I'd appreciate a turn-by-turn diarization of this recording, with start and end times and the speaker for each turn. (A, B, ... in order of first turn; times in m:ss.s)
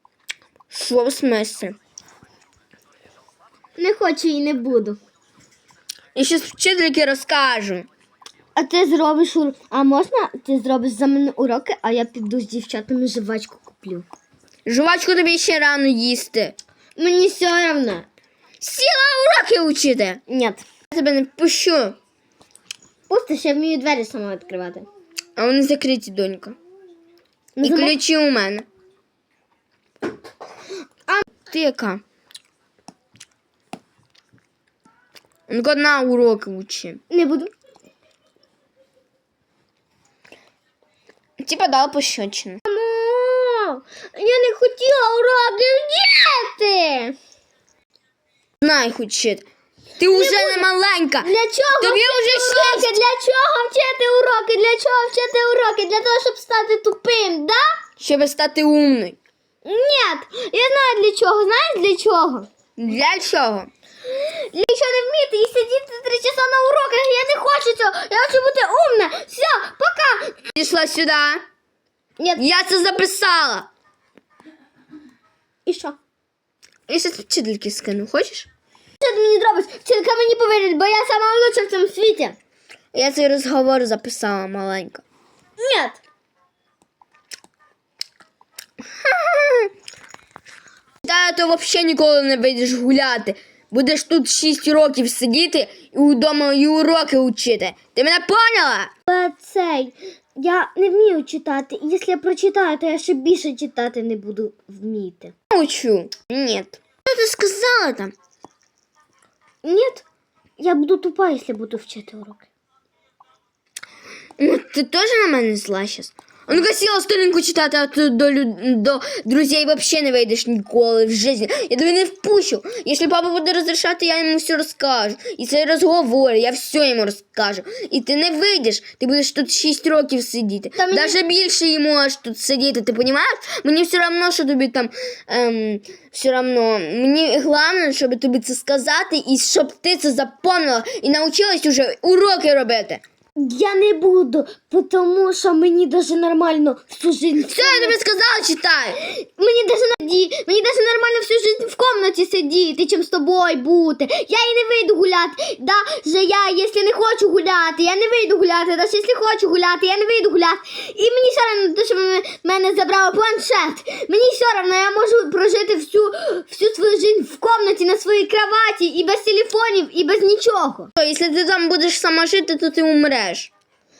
0:00.7-0:01.8 A
0:03.8-0:05.0 B
0:06.2-0:07.9 A
0:08.6-0:14.1 B
0:14.6-0:16.6 A
0:17.0-0:18.1 B
0:18.6-0:20.2 A
0:20.3-0:20.6 B
0:20.9-0:22.0 A
0:23.1-0:24.9 B
0:25.4-0:26.6 A
0:27.6-0:27.9 B
0:27.6-0:28.6 A
0:31.5-0:32.0 A
0:35.5-0:37.0 A
0:37.1-0:37.5 B
0:41.4-0:42.6 A
0:42.7-0:47.2 B
0:48.6-0:49.4 A
0:50.0-0:52.9 A
0:50.0-0:50.7 B
0:51.2-0:57.8 B
0:58.0-0:59.2 A
0:59.6-1:02.5 B
1:02.8-1:03.7 A
1:04.1-1:10.4 B
1:10.5-1:11.4 A
1:12.4-1:13.7 A
1:15.7-1:16.0 B
1:16.9-1:18.5 A
1:19.0-1:22.4 B
1:22.9-1:25.0 A
1:25.6-1:26.0 B
1:29.0-1:29.7 A
1:31.0-1:38.9 A
1:39.1-1:45.3 B
1:45.5-1:48.1 A
1:49.6-1:50.0 B
1:50.6-1:52.5 B
1:54.4-2:23.0 A
2:10.8-2:11.2 B
2:23.4-2:28.0 B
2:27.5-2:29.0 A
2:29.0-2:50.9 B
2:51.0-2:53.5 A